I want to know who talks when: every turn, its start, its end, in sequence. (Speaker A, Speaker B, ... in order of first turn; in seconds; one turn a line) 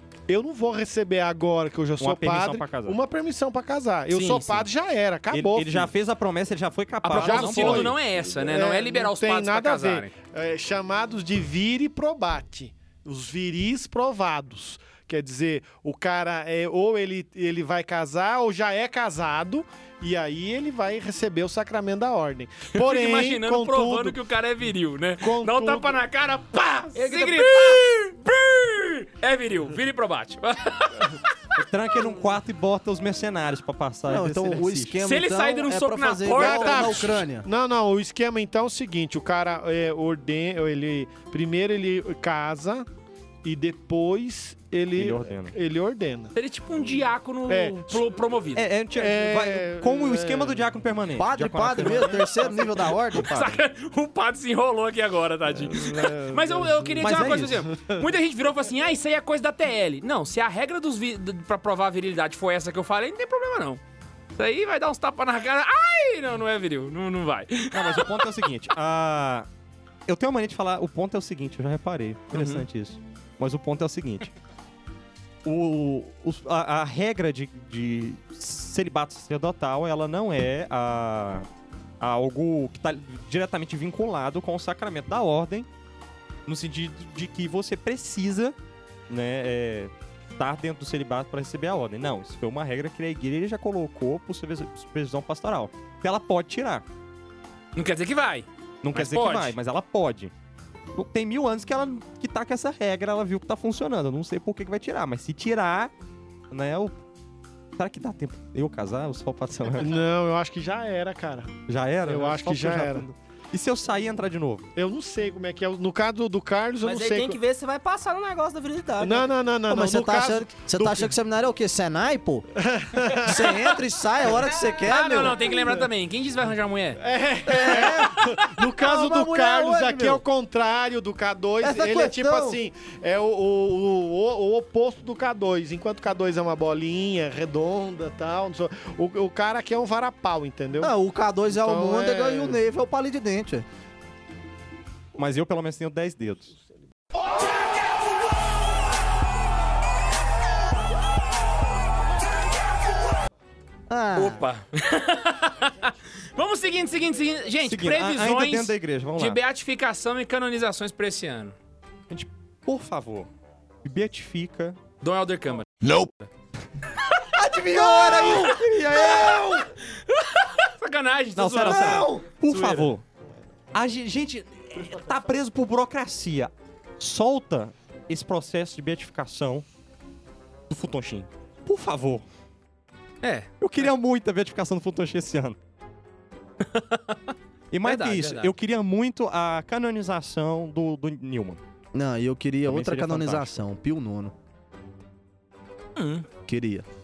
Speaker A: 0.3-5.9
Speaker B: 2.0-3.0
Speaker C: 4.1-4.7
Speaker B: 5.3-8.0
Speaker C: 7.0-10.1
Speaker A: 7.0-24.2
Speaker C: 22.7-31.2
Speaker A: 25.2-26.0
Speaker D: 26.9-27.8
Speaker B: 31.6-35.0
Speaker E: 34.1-37.5
Speaker C: 35.0-37.2
Speaker A: 36.3-42.9
Speaker A: 43.4-46.3
Speaker B: 45.0-45.5
Speaker C: 46.4-48.6
Speaker A: 47.5-48.1
Speaker B: 48.6-53.6
Speaker A: 49.0-50.6
Speaker E: 51.2-53.3
Speaker C: 53.1-63.8
Speaker A: 55.6-58.0
Speaker E: 57.0-57.6
Speaker C: 64.4-68.3
Speaker B: 67.7-69.5
Speaker B: 70.1-74.3
Speaker C: 72.3-72.6
Speaker B: 75.5-81.5
Speaker B: 82.0-85.7
Speaker B: 86.5-88.6
Speaker B: 89.1-96.8
Speaker C: 97.8-99.5
Speaker B: 98.8-100.3
Speaker B: 100.9-105.9
Speaker B: 106.5-107.0
Speaker B: 107.8-110.0
Speaker A: 109.8-113.1
Speaker B: 111.7-114.7
Speaker A: 114.8-117.4
Speaker D: 116.8-119.3
Speaker A: 119.0-121.1
Speaker E: 119.7-122.5
Speaker A: 122.6-123.8
Speaker E: 123.2-125.5
Speaker C: 124.8-127.0
Speaker A: 125.5-125.9
Speaker A: 127.0-140.9
Speaker E: 127.5-130.2
Speaker E: 131.6-132.6
Speaker E: 140.8-143.7
Speaker A: 141.5-142.6
Speaker B: 145.2-146.5
Speaker E: 153.9-154.4
Speaker C: 154.2-161.6
Speaker B: 157.7-159.4
Speaker B: 162.1-163.3
Speaker B: 163.8-164.8
Speaker C: 165.0-166.3
Speaker E: 167.3-169.7
Speaker B: 167.4-169.7
Speaker C: 169.9-172.9
Speaker B: 171.4-173.0
Speaker E: 171.6-172.3
Speaker B: 173.7-179.7
Speaker B: 180.7-182.2
Speaker C: 183.2-183.5
Speaker B: 183.6-185.6
Speaker C: 186.7-187.2
Speaker B: 187.7-191.6
Speaker C: 187.8-188.5
Speaker E: 191.9-194.3
Speaker B: 192.7-193.6
Speaker C: 196.0-196.3
Speaker E: 196.5-196.9